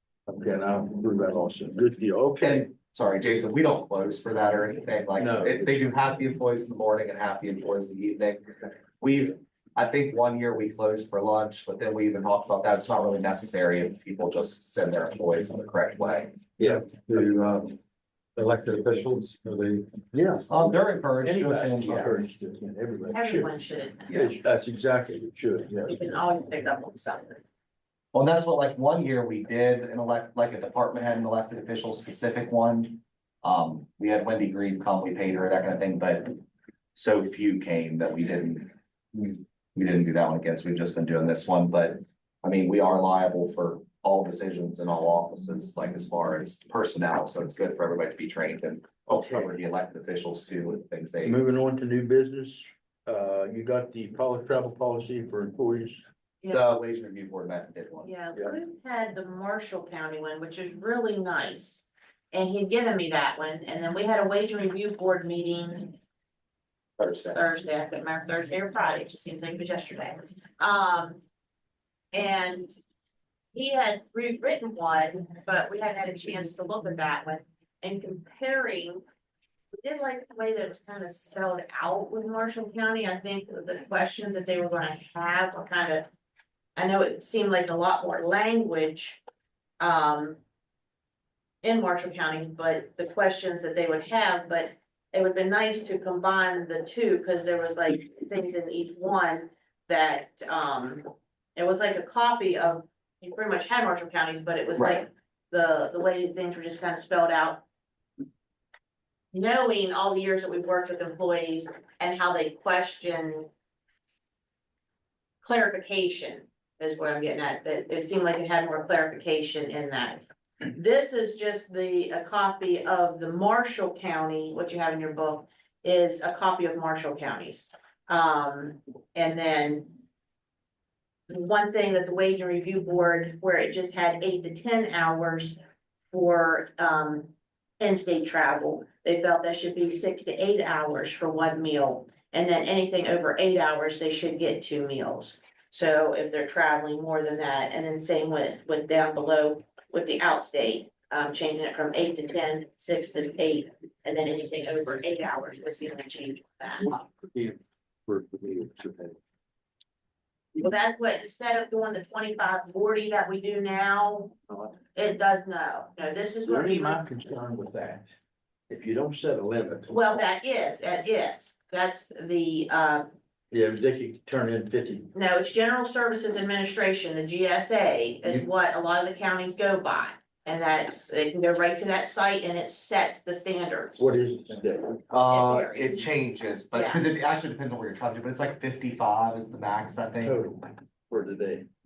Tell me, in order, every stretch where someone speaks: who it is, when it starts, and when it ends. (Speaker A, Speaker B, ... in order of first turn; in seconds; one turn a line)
Speaker A: 0.3-2.7
Speaker B: 2.4-16.4
Speaker A: 5.2-5.9
Speaker A: 16.6-17.2
Speaker C: 16.6-17.8
Speaker C: 18.4-20.0
Speaker A: 20.1-23.5
Speaker B: 20.5-22.1
Speaker D: 23.1-24.3
Speaker A: 24.1-26.0
Speaker D: 25.9-27.4
Speaker B: 28.1-36.4
Speaker B: 36.9-51.4
Speaker A: 49.1-49.5
Speaker A: 51.2-56.0
Speaker D: 56.4-56.7
Speaker B: 56.5-58.1
Speaker D: 58.0-66.0
Speaker B: 67.0-67.4
Speaker D: 67.3-71.2
Speaker D: 72.1-72.7
Speaker D: 73.5-79.0
Speaker D: 79.7-86.1
Speaker D: 86.8-89.2
Speaker D: 89.8-90.4
Speaker D: 91.6-107.6
Speaker B: 104.8-105.0
Speaker D: 109.3-113.5
Speaker D: 115.4-130.0
Speaker D: 131.3-135.6
Speaker D: 136.1-156.9
Speaker A: 156.8-159.2
Speaker D: 160.6-164.4
Speaker D: 164.9-167.0
Speaker A: 166.4-168.1
Speaker A: 168.7-170.0
Speaker D: 169.9-173.1
Speaker A: 173.5-175.1
Speaker D: 175.1-184.0
Speaker A: 184.0-185.0
Speaker B: 185.1-190.4
Speaker D: 185.3-186.1
Speaker D: 186.7-187.0
Speaker A: 190.2-191.7